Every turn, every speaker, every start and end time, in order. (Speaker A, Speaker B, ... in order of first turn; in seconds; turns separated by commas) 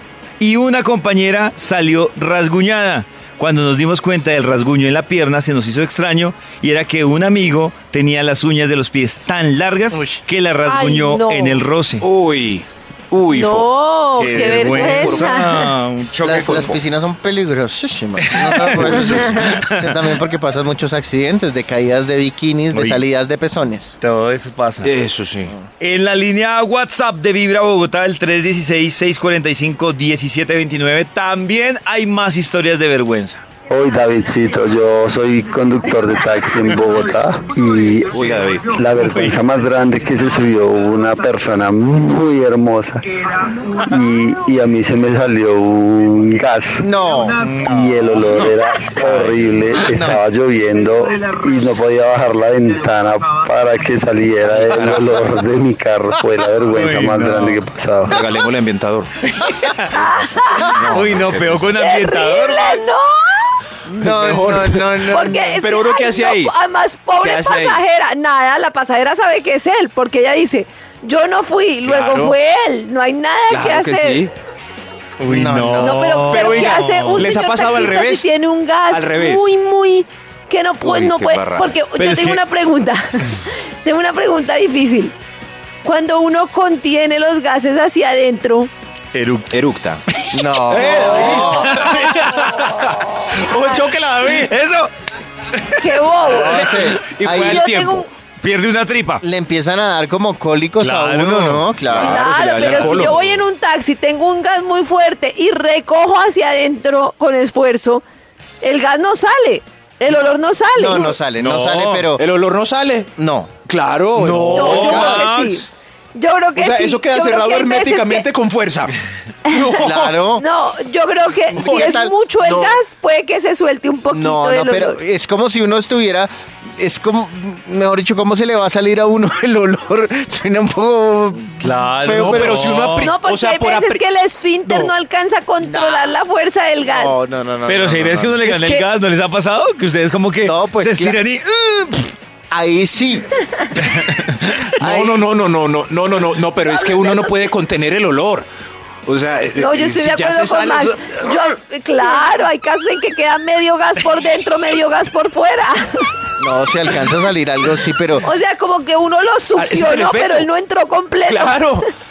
Speaker A: 0.4-12.1, Speaker B: 9.9-10.2, Speaker C: 10.7-11.6, Speaker D: 12.0-13.7, Speaker C: 13.3-15.7, Speaker A: 14.2-16.8, Speaker D: 14.2-15.4, Speaker B: 16.2-23.9, Speaker D: 16.4-16.8, Speaker A: 18.2-20.1, Speaker A: 22.7-23.1, Speaker A: 24.0-25.0, Speaker D: 24.8-25.6, Speaker A: 25.8-33.4, Speaker E: 33.7-46.9, Speaker D: 38.1-38.8, Speaker A: 38.9-39.4, Speaker B: 46.8-48.1, Speaker A: 47.4-47.7, Speaker E: 47.5-58.2, Speaker D: 49.0-49.4, Speaker B: 49.9-50.2, Speaker D: 54.5-55.0, Speaker B: 54.7-55.1, Speaker A: 56.7-57.6, Speaker D: 58.1-59.1, Speaker C: 59.9-61.0, Speaker D: 60.6-61.8, Speaker A: 60.8-62.8, Speaker C: 61.8-63.5, Speaker B: 63.9-65.5, Speaker D: 64.0-66.6, Speaker C: 65.0-74.3, Speaker D: 67.1-67.8, Speaker D: 71.8-72.4, Speaker D: 73.5-74.3, Speaker A: 75.2-77.4, Speaker B: 75.3-76.1, Speaker C: 75.8-85.1, Speaker D: 76.3-78.3, Speaker D: 78.9-79.5, Speaker D: 80.8-81.8, Speaker A: 81.9-82.4, Speaker C: 85.8-88.7, Speaker A: 89.1-89.5, Speaker D: 89.5-90.0, Speaker B: 90.3-91.8, Speaker D: 90.6-94.6, Speaker A: 91.2-92.8, Speaker C: 92.9-93.3, Speaker A: 94.4-94.9, Speaker C: 95.8-96.6, Speaker B: 96.2-97.6, Speaker A: 96.2-97.0, Speaker D: 96.5-98.1, Speaker C: 97.4-98.1, Speaker A: 98.4-99.2, Speaker B: 99.2-103.1, Speaker A: 100.8-101.7, Speaker D: 101.8-103.4, Speaker C: 102.0-108.0, Speaker A: 102.6-103.1, Speaker C: 108.6-111.2, Speaker B: 110.1-112.2, Speaker A: 111.2-112.1, Speaker D: 112.2-115.6, Speaker B: 113.2-113.6, Speaker A: 114.2-115.7, Speaker B: 114.2-115.2, Speaker C: 114.5-118.3, Speaker D: 116.5-118.9, Speaker D: 119.5-120.3, Speaker B: 119.8-120.5, Speaker C: 120.3-125.0, Speaker B: 121.5-122.8, Speaker D: 121.6-121.9, Speaker B: 124.1-132.6, Speaker A: 131.6-133.2, Speaker D: 132.1-134.1, Speaker C: 133.0-137.2, Speaker D: 134.6-134.9, Speaker B: 135.6-136.1, Speaker B: 136.8-138.7, Speaker A: 137.7-142.1, Speaker D: 138.5-138.9, Speaker B: 140.4-141.2, Speaker B: 142.5-143.3, Speaker D: 144.6-148.5, Speaker B: 144.8-145.2, Speaker C: 146.7-147.3, Speaker D: 149.1-151.5, Speaker C: 149.6-156.1, Speaker B: 156.4-158.3, Speaker C: 158.2-161.8, Speaker D: 159.5-160.5, Speaker D: 161.2-161.9